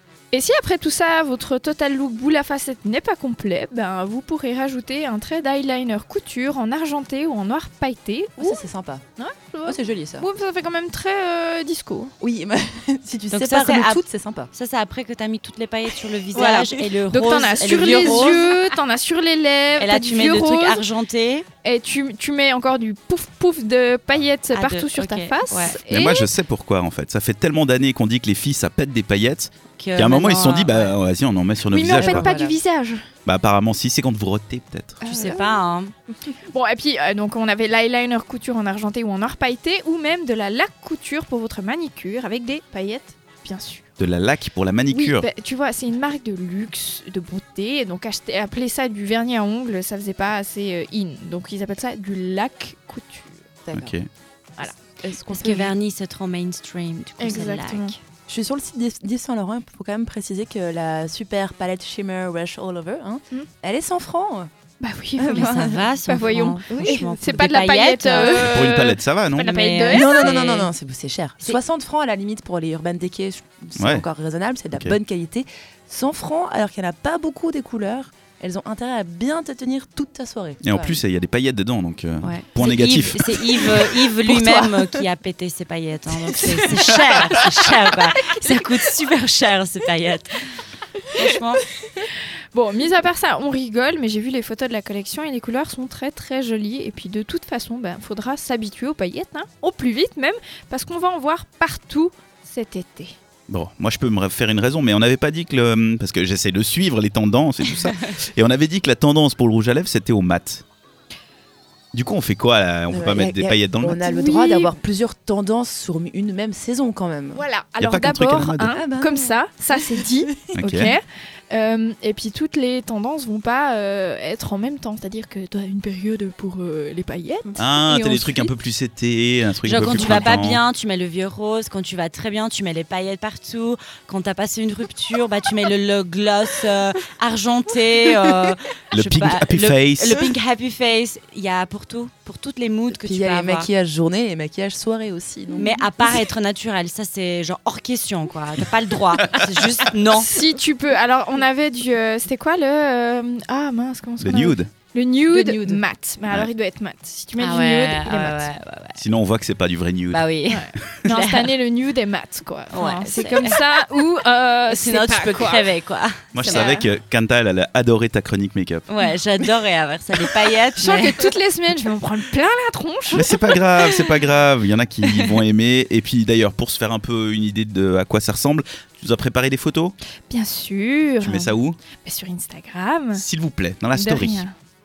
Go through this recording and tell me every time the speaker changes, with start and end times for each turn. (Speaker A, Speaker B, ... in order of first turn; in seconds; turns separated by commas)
Speaker A: 0.3-8.6, Speaker B: 8.4-9.0, Speaker A: 9.2-12.1, Speaker B: 9.7-10.3, Speaker B: 12.2-14.5, Speaker C: 13.3-14.0, Speaker C: 14.5-18.4, Speaker A: 16.3-20.9, Speaker B: 17.9-18.3, Speaker C: 19.8-21.5, Speaker A: 21.6-26.3, Speaker C: 24.5-25.8, Speaker D: 25.8-32.3, Speaker C: 29.8-31.0, Speaker A: 31.7-33.0, Speaker B: 31.9-32.6, Speaker D: 33.3-35.1, Speaker A: 35.0-35.6, Speaker C: 35.1-35.9, Speaker A: 36.3-44.0, Speaker D: 44.0-45.3, Speaker A: 44.9-53.7, Speaker B: 53.7-53.9, Speaker D: 53.7-54.1, Speaker B: 55.0-55.8, Speaker C: 55.3-57.9, Speaker A: 57.2-58.0, Speaker B: 58.3-64.5, Speaker A: 64.8-70.3, Speaker B: 65.2-65.9, Speaker C: 65.3-68.5, Speaker B: 66.7-67.0, Speaker B: 68.2-68.4, Speaker D: 68.3-69.5, Speaker C: 69.4-70.7, Speaker B: 69.9-81.0, Speaker D: 73.8-74.0, Speaker D: 80.6-83.7, Speaker C: 82.2-90.4, Speaker B: 83.7-85.0, Speaker C: 91.1-91.6, Speaker A: 92.0-103.2, Speaker D: 103.5-110.6, Speaker D: 111.9-114.0, Speaker B: 112.9-117.5, Speaker A: 114.0-114.7, Speaker A: 117.3-128.5, Speaker D: 117.8-118.8, Speaker B: 118.7-119.3, Speaker D: 120.5-121.0, Speaker D: 127.6-130.6, Speaker C: 129.6-143.7, Speaker A: 129.9-130.4, Speaker D: 138.9-140.2, Speaker B: 143.0-146.1, Speaker C: 145.6-150.3, Speaker A: 150.2-158.5, Speaker D: 154.2-154.7, Speaker B: 155.3-155.8, Speaker C: 157.4-159.0, Speaker D: 158.9-161.0, Speaker C: 160.1-161.5, Speaker A: 160.4-165.7, Speaker C: 162.7-163.6, Speaker C: 164.7-166.8, Speaker D: 166.3-168.9, Speaker A: 166.4-166.9, Speaker C: 168.9-171.3, Speaker A: 170.8-173.4, Speaker D: 173.1-179.9, Speaker A: 180.3-183.2, Speaker D: 181.2-181.8, Speaker D: 183.2-184.4, Speaker A: 183.9-184.5